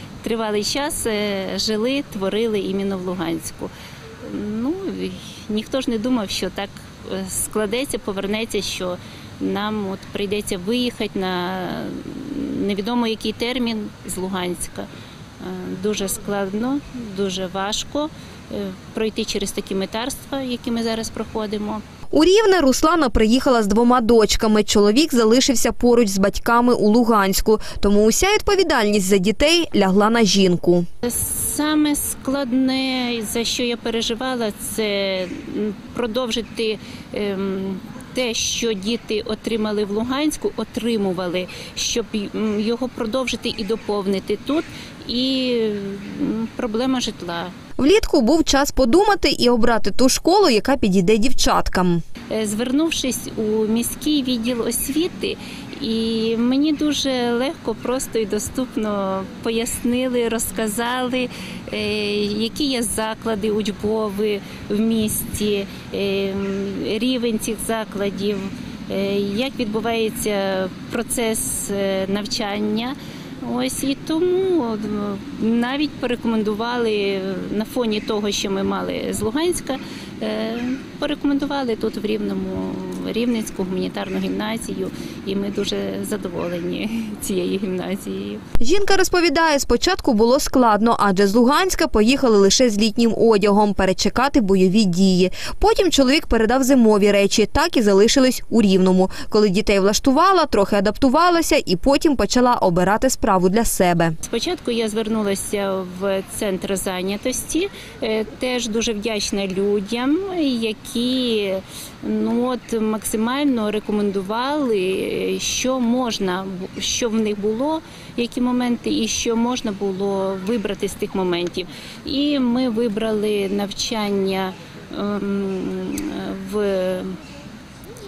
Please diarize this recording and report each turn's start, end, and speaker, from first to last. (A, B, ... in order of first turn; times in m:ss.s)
0:00.2-0:03.7 A
0:04.2-0:14.9 A
0:15.4-0:21.8 A
0:22.1-0:30.8 B
0:31.0-0:47.5 A
0:47.8-0:52.0 B
0:52.3-1:28.4 A
1:28.6-1:44.2 B
1:44.2-2:07.2 A